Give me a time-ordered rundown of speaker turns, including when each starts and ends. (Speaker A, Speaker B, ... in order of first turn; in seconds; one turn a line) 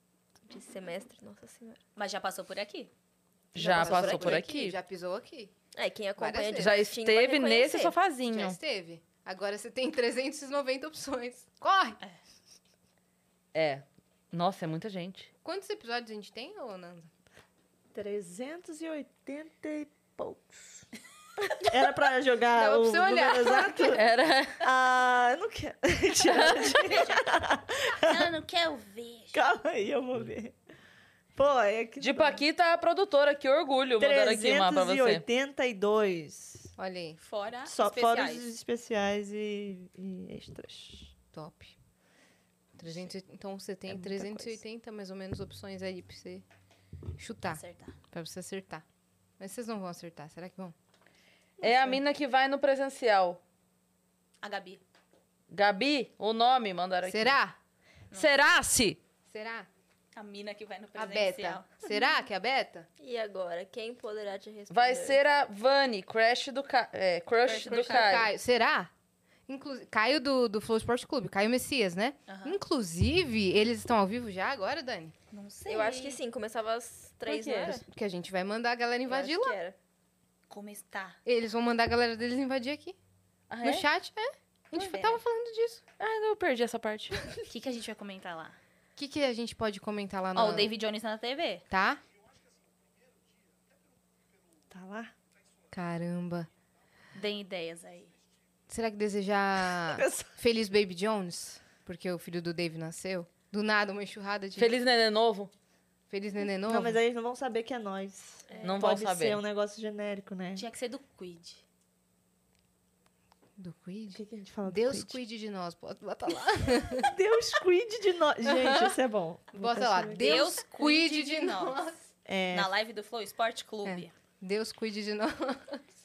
Speaker A: 0.5-1.8
Speaker B: 2.0-2.9
Speaker C: 3.5-4.8
Speaker D: 3.5-5.5
Speaker A: 3.6-4.5
Speaker A: 5.7-8.0
Speaker D: 6.2-6.8
Speaker C: 6.6-8.6
Speaker D: 8.3-12.0
Speaker C: 13.5-15.3
Speaker D: 15.4-17.1
Speaker E: 17.9-20.9
Speaker E: 21.5-24.0
Speaker D: 22.6-24.0
Speaker C: 23.9-24.6
Speaker E: 24.6-28.3
Speaker C: 26.3-26.8
Speaker B: 26.8-27.2
Speaker B: 28.0-29.4
Speaker E: 29.3-30.6
Speaker E: 31.4-32.4
Speaker C: 32.0-35.2
Speaker E: 34.0-36.7
Speaker D: 36.8-37.2
Speaker B: 37.2-38.5
Speaker E: 37.7-41.1
Speaker D: 41.3-41.8
Speaker D: 42.8-46.4
Speaker E: 43.9-44.6
Speaker D: 47.2-48.8
Speaker B: 47.5-47.9
Speaker D: 49.4-50.7
Speaker E: 51.6-52.0
Speaker C: 51.6-53.4
Speaker B: 54.4-54.8
Speaker C: 55.5-57.4
Speaker D: 57.0-57.6
Speaker C: 58.1-59.0
Speaker D: 59.3-59.7
Speaker B: 60.1-61.8
Speaker D: 61.0-62.9
Speaker A: 63.0-65.2
Speaker C: 64.7-68.3
Speaker B: 67.5-68.3
Speaker D: 67.8-68.9
Speaker D: 69.5-75.1
Speaker B: 72.3-72.6
Speaker B: 75.3-76.2
Speaker A: 75.7-77.8
Speaker C: 77.2-77.8
Speaker D: 77.8-79.6
Speaker A: 79.1-79.8
Speaker B: 80.5-81.2
Speaker D: 81.2-83.0
Speaker C: 83.5-83.9
Speaker D: 83.6-85.8
Speaker A: 84.8-85.1
Speaker C: 86.0-87.2
Speaker B: 87.5-88.6
Speaker D: 89.0-90.7
Speaker B: 90.3-91.7
Speaker D: 91.7-92.0
Speaker E: 94.7-95.1
Speaker D: 95.7-96.5
Speaker B: 97.2-98.1
Speaker D: 98.7-104.7
Speaker E: 99.7-100.3
Speaker C: 104.6-105.5
Speaker D: 106.1-107.0
Speaker E: 106.7-110.7
Speaker C: 108.6-109.4
Speaker B: 110.6-111.6
Speaker D: 113.6-117.1
Speaker E: 114.2-115.2
Speaker E: 117.0-120.5
Speaker D: 118.5-119.0
Speaker D: 119.5-122.0
Speaker B: 120.2-121.9
Speaker E: 122.3-122.7
Speaker B: 122.5-124.1
Speaker D: 123.8-125.8